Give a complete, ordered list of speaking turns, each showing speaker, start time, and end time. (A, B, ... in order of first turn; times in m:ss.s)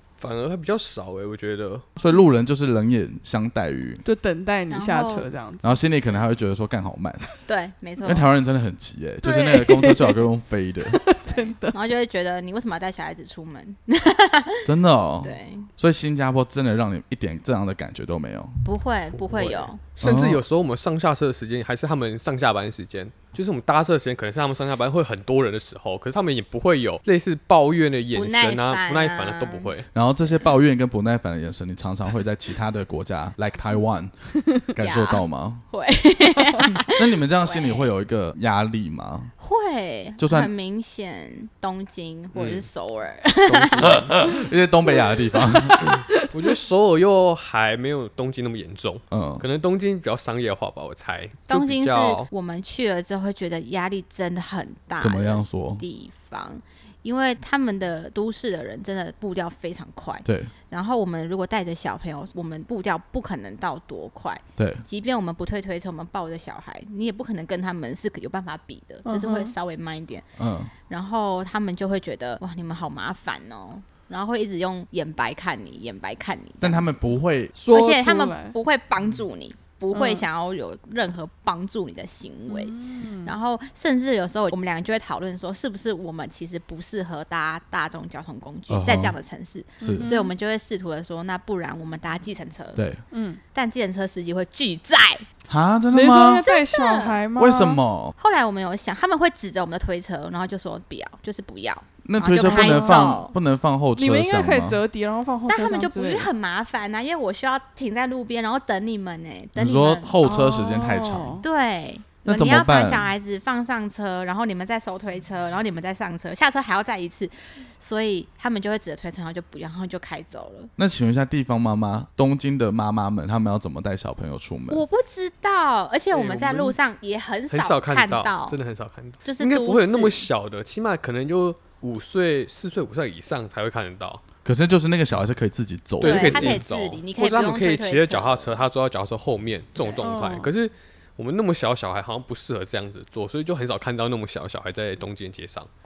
0:00.2-0:01.8 A
0:02.0-0:04.0 B
0:04.0-0:05.8 C
0:04.7-0:05.3 D
0:05.6-0:07.3 B
0:07.4-0:08.2 D
0:08.0-0:11.0 B
0:09.2-0:10.2 C
0:10.9-0:11.8 C
0:11.2-0:14.7 D
0:14.6-0:18.6 B
0:15.2-0:15.7 D
0:18.6-0:19.8 D
0:19.1-0:29.9 A
0:20.0-0:20.4 B
0:28.1-0:29.7 D
0:29.9-0:34.1 B
0:34.7-0:35.6 B
0:34.8-0:37.9 D
0:37.0-0:39.3 B
0:39.4-0:44.0 D
0:40.2-0:40.5 B
0:42.3-0:42.6 A
0:43.4-0:44.3 A
0:43.8-0:45.8 B
0:45.9-0:52.3 A
0:49.1-0:49.4 B
0:51.5-1:10.2 D
0:55.0-0:55.8 B
1:00.2-1:00.5 B
1:04.6-1:04.8 B
1:09.0-1:09.5 C
1:10.4-1:10.7 B
1:10.9-1:16.9 D
1:16.6-1:17.5 B
1:17.5-1:18.5 C
1:17.7-1:32.8 D
1:19.9-1:20.2 C
1:22.5-1:23.3 C
1:28.7-1:29.1 B
1:29.8-1:30.1 B
1:29.8-1:30.3 C
1:32.8-1:33.0 B
1:33.1-1:33.4 C
1:33.5-1:35.2 D
1:35.5-1:36.4 B
1:35.9-1:37.8 C
1:36.2-1:37.2 D
1:37.4-1:38.1 B
1:38.2-1:43.3 D
1:42.0-1:44.8 B
1:42.4-1:43.1 C
1:44.0-1:46.3 C
1:45.5-1:50.1 D
1:49.6-1:51.4 B
1:50.2-1:51.4 C
1:51.4-2:00.7 D
1:52.2-1:53.1 B
2:00.8-2:04.8 B
2:04.7-2:08.6 D
2:06.1-2:06.8 A
2:07.5-2:14.2 A
2:09.2-2:10.3 D
2:14.4-2:16.6 B
2:16.0-2:18.6 D
2:16.0-2:25.7 A
2:19.8-2:20.1 D
2:20.0-2:20.5 C